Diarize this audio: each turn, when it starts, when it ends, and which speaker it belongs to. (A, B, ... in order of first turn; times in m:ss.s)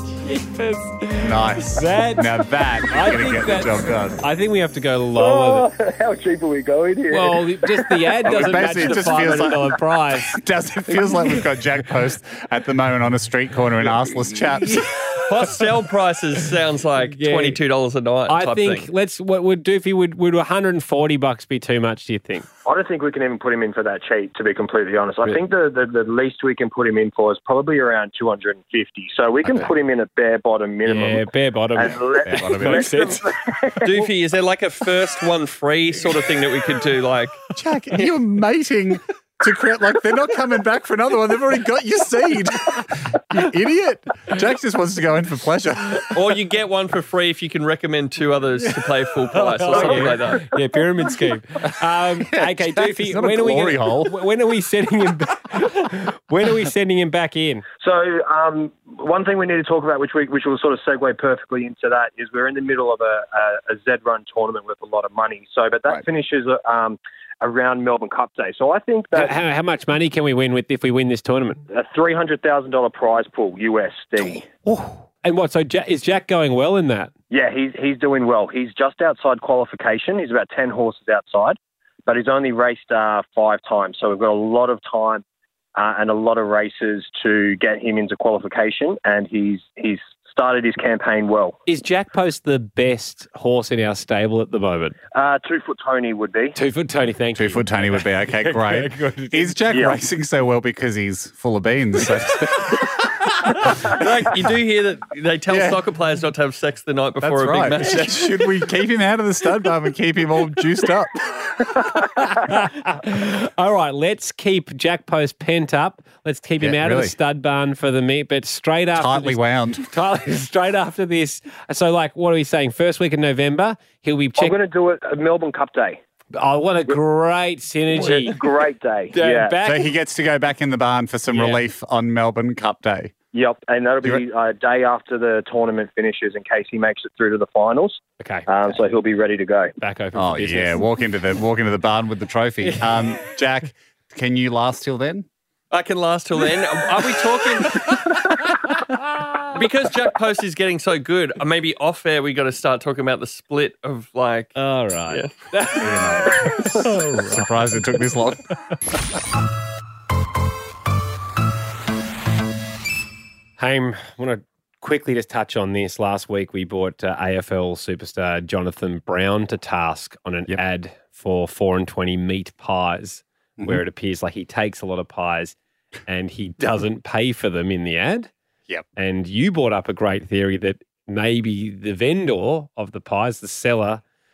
0:00.2-0:05.7 A
0:01.2-0:04.2 B
0:05.2-0:09.8 C
0:07.1-0:10.4 A
0:08.2-0:14.8 B
0:14.6-0:15.2 A
0:15.2-0:18.9 D
0:17.1-0:17.6 A
0:18.3-0:22.5 A
0:22.6-0:34.1 C
0:29.4-0:29.7 B
0:30.8-0:33.3 A
0:32.2-0:33.0 B
0:33.8-0:37.4 D
0:37.6-0:46.1 B
0:46.1-0:50.5 D
0:49.3-0:57.7 A
0:52.2-0:54.2 B
0:57.8-1:09.4 C
1:09.1-1:11.6 A
1:11.7-1:14.6 C
1:14.7-1:17.1 A
1:17.3-1:25.2 C
1:25.8-1:31.6 C
1:31.7-1:35.0 A
1:35.1-1:36.6 C
1:36.6-1:39.7 A
1:37.4-1:44.0 B
1:39.7-1:40.0 C
1:43.9-1:48.5 D
1:45.5-1:45.8 B
1:47.2-1:51.9 B
1:52.2-2:04.6 A
1:56.6-1:57.2 B
1:59.0-1:59.8 B
2:04.4-2:06.0 C
2:06.3-2:08.4 A
2:07.9-2:09.6 C
2:09.1-2:09.9 A
2:09.6-2:13.1 B
2:11.3-2:11.6 A
2:13.3-2:19.7 C
2:18.2-2:18.8 A
2:19.8-2:20.8 A
2:20.2-2:25.3 B
2:25.7-2:27.9 D
2:28.9-2:29.2 A
2:29.5-2:34.6 D
2:34.6-2:37.7 A
2:35.1-2:35.4 D
2:35.8-2:38.4 B
2:43.6-2:55.6 A
2:56.1-2:58.3 A
2:59.0-3:04.0 A